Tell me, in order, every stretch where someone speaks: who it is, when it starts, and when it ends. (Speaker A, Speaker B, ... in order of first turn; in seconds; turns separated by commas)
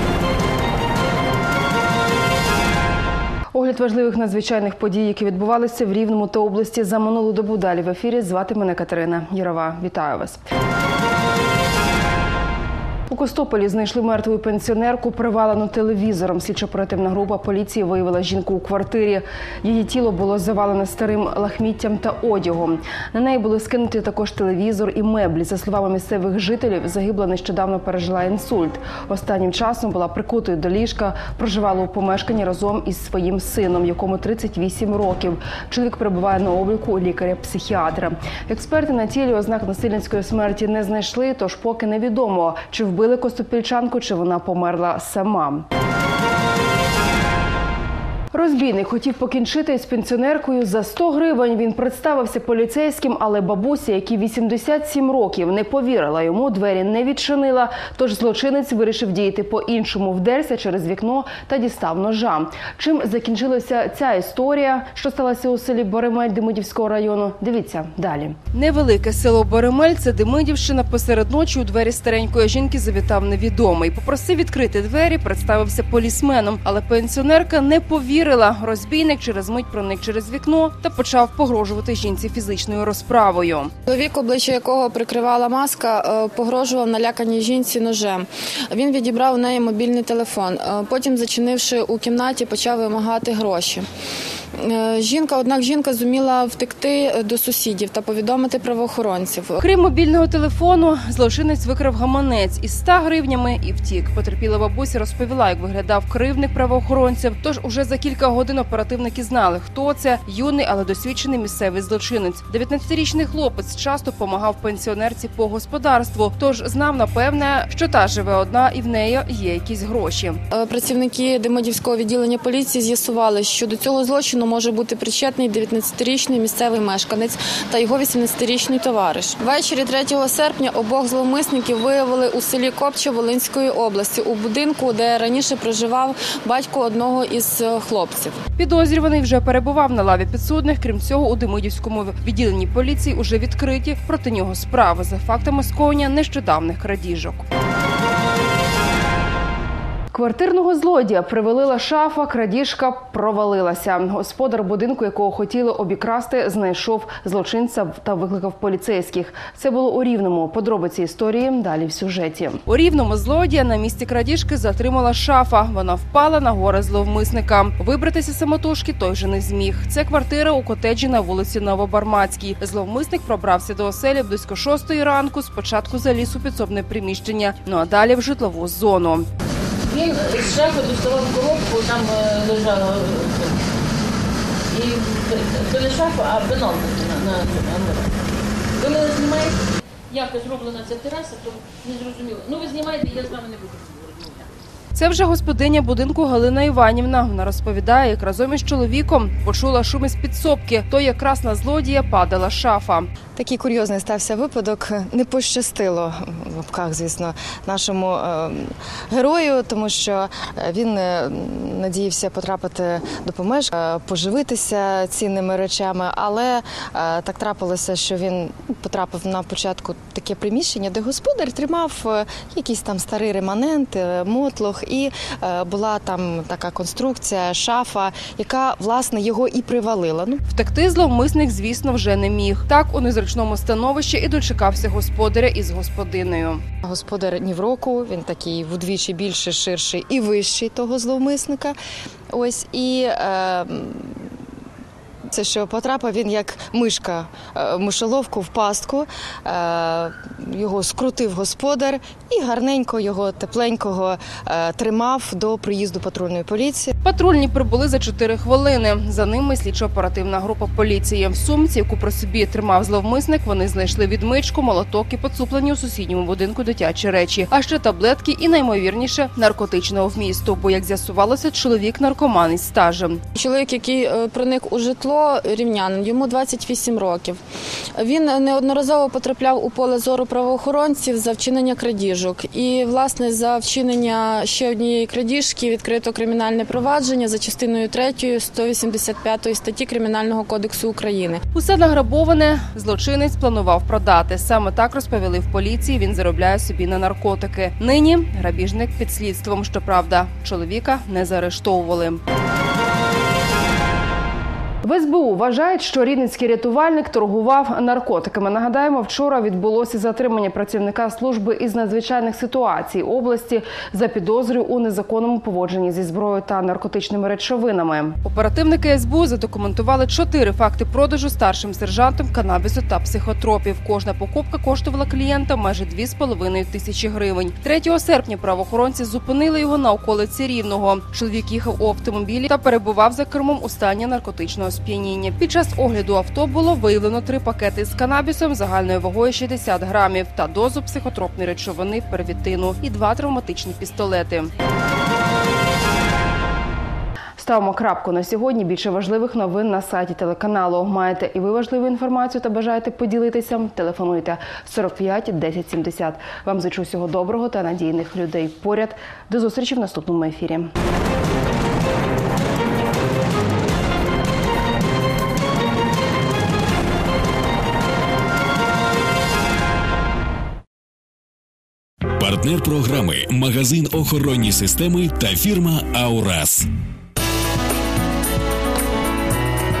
Speaker A: 3.5-10.4, Speaker A: 13.1-45.6, Speaker A: 48.3-83.7, Speaker B: 83.9-93.8, Speaker B: 94.6-99.6, Speaker A: 99.6-120.4, Speaker B: 120.5-138.3, Speaker C: 123.7-124.6, Speaker C: 126.4-126.8, Speaker A: 138.6-147.4, Speaker A: 150.1-179.3, Speaker D: 179.9-183.6, Speaker D: 184.7-194.4, Speaker A: 194.9-203.1, Speaker E: 203.3-230.4, Speaker A: 230.5-236.6, Speaker E: 236.8-241.8, Speaker E: 242.3-244.3, Speaker E: 245.3-256.9, Speaker A: 257.0-273.2, Speaker B: 273.3-277.4, Speaker B: 277.9-291.4, Speaker C: 283.3-283.6, Speaker A: 291.5-302.2, Speaker A: 304.8-344.5, Speaker A: 347.4-360.7, Speaker C: 372.2-376.7